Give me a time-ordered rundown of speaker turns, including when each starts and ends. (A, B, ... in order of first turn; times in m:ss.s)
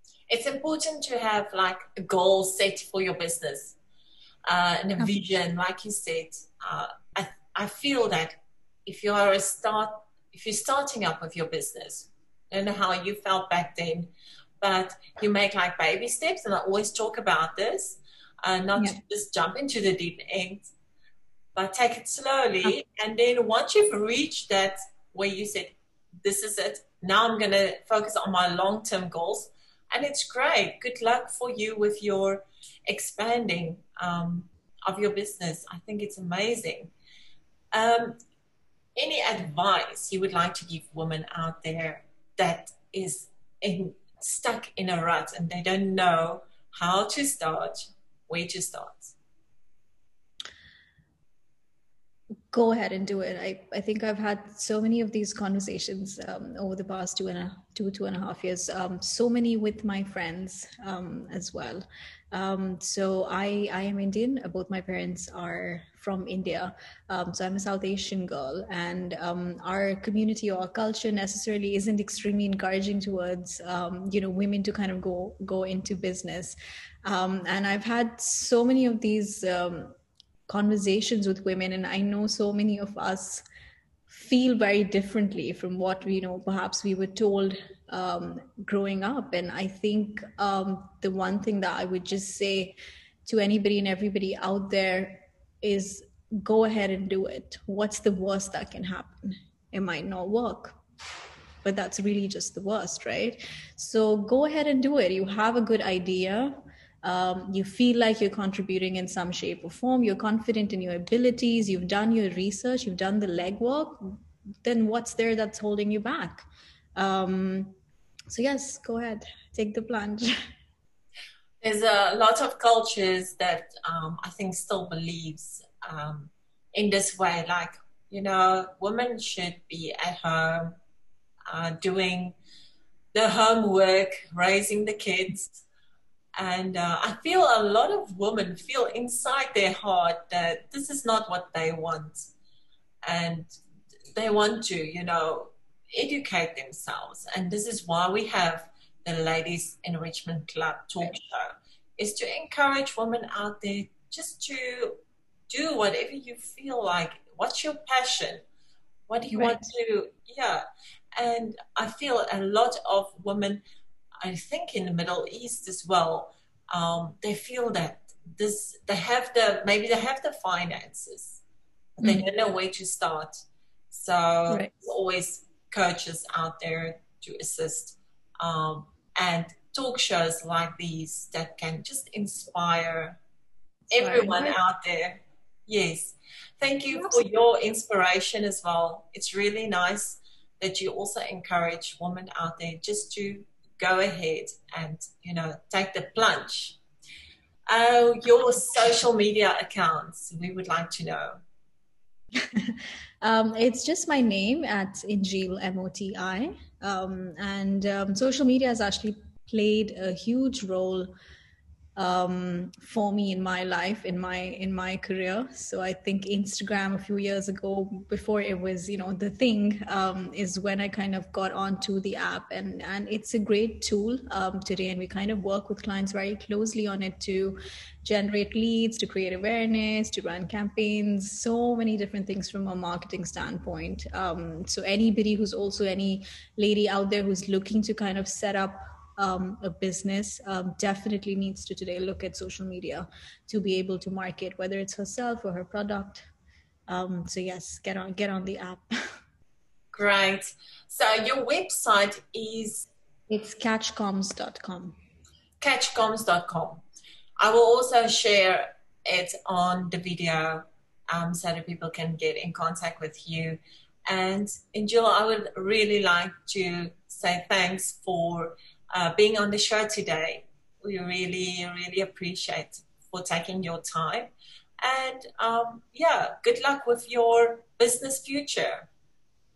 0:00.3-0:03.8 A
0:04.5-0:20.7 A
0:21.5-0:36.9 A
0:37.7-0:38.2 A
0:38.9-0:49.1 A
0:52.5-1:19.9 B
1:20.5-1:23.4 B
1:24.1-1:40.8 B
1:41.6-1:54.1 B
1:54.6-1:57.7 B
1:58.3-2:00.3 B
2:01.6-2:10.8 A
2:11.5-2:12.4 A
2:13.1-2:15.6 A
2:16.4-2:22.3 A
2:23.0-2:23.6 A
2:24.1-2:38.4 A
2:39.1-2:40.6 A
2:39.3-2:39.7 B
2:41.2-2:43.6 A
2:44.2-2:51.4 A
2:52.0-3:03.2 A
3:03.9-3:16.8 A
3:04.0-3:04.6 B
3:06.9-3:07.2 B
3:17.7-3:21.4 A
3:22.5-3:31.1 B
3:32.0-4:06.3 B
4:06.9-4:08.9 B
4:09.9-4:12.9 A
4:13.3-4:15.0 B
4:15.6-4:16.8 A
4:17.4-4:38.9 A